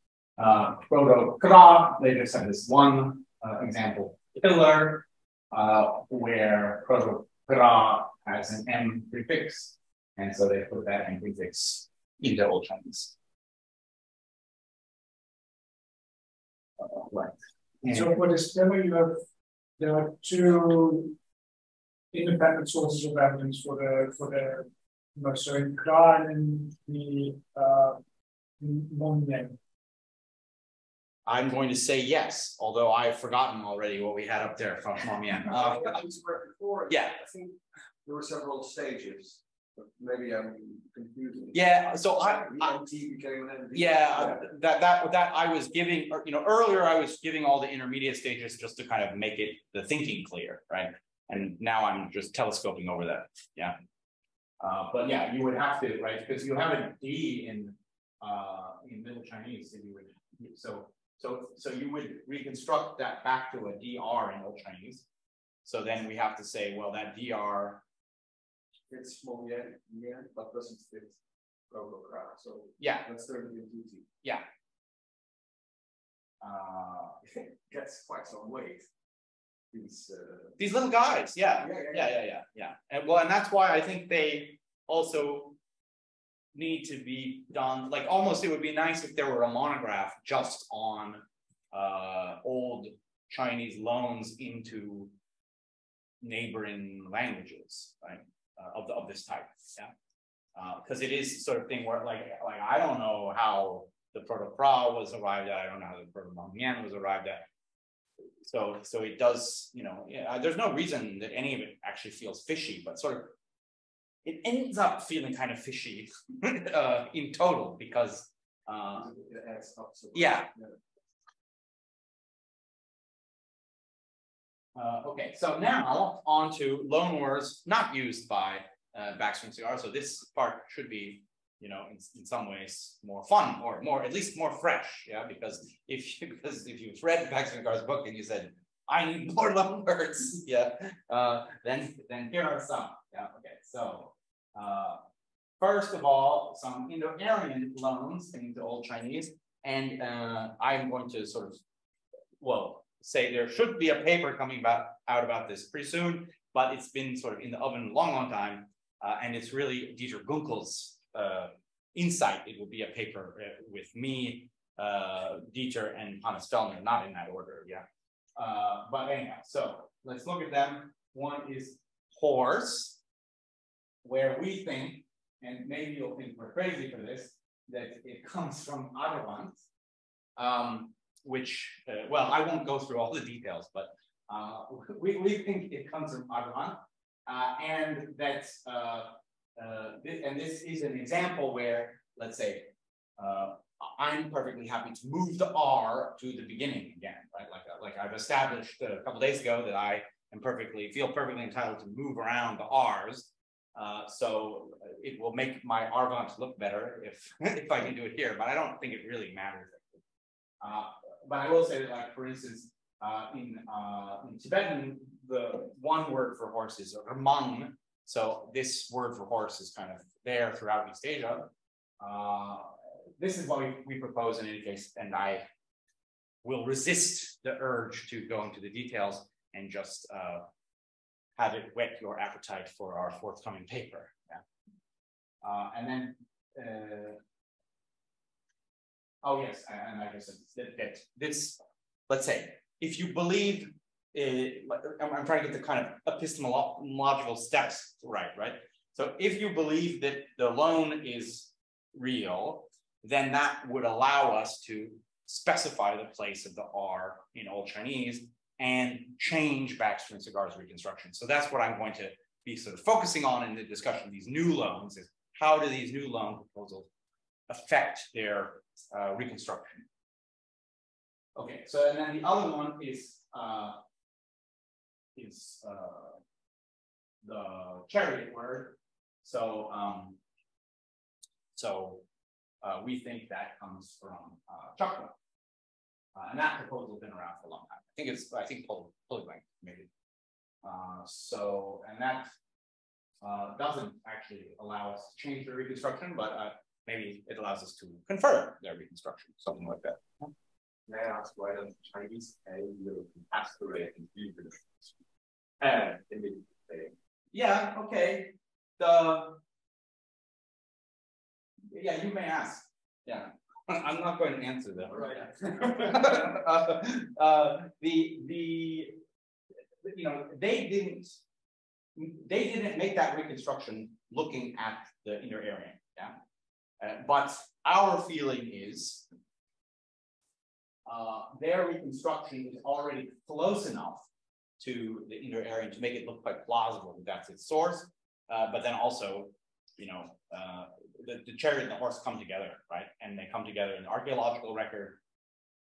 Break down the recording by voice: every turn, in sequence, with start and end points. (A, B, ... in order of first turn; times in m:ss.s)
0:00.4-0:13.1 A
0:16.8-0:18.2 A
0:17.9-0:19.2 B
0:19.8-0:21.2 B
0:22.1-0:28.0 B
0:28.6-0:29.6 B
0:31.3-0:36.0 A
0:35.4-0:44.5 C
0:36.9-0:37.2 A
0:41.5-0:42.8 A
0:43.7-0:53.8 A
0:54.6-1:05.1 A
1:05.6-1:07.8 A
1:08.9-1:14.1 C
1:12.8-1:13.1 A
1:16.4-1:17.2 A
1:17.4-1:18.9 C
1:19.7-1:20.6 C
1:20.6-1:25.6 A
1:21.6-1:22.2 C
1:26.5-1:35.1 A
1:36.2-1:39.9 A
1:40.6-1:47.4 A
1:48.4-1:53.4 A
1:54.2-1:59.1 A
1:59.0-2:00.8 C
2:00.1-2:00.5 A
2:04.8-2:25.0 A
2:25.6-2:31.6 A
2:32.4-2:47.8 A
2:48.4-2:53.0 A
2:54.0-2:59.6 A
3:00.4-3:30.0 A
3:30.6-3:41.5 A
3:42.0-3:45.5 A
3:46.4-3:50.5 A
3:51.4-3:54.4 A
3:55.4-3:57.2 A
3:59.2-4:26.9 A
4:27.5-4:29.9 A
4:31.4-4:33.8 A
4:35.2-4:36.2 A
4:37.2-4:40.2 A
4:41.5-4:42.0 A
4:42.6-4:45.1 A
4:46.2-4:49.9 A
4:50.6-4:52.3 A
4:53.2-5:00.3 A
5:00.9-5:04.6 D
5:05.6-5:06.9 D
5:07.3-5:09.4 A
5:11.7-5:19.0 A
5:15.6-5:15.9 C
5:19.8-5:21.2 A
5:22.0-5:26.2 A
5:26.8-5:29.1 A
5:30.9-5:34.0 A
5:34.6-5:45.0 A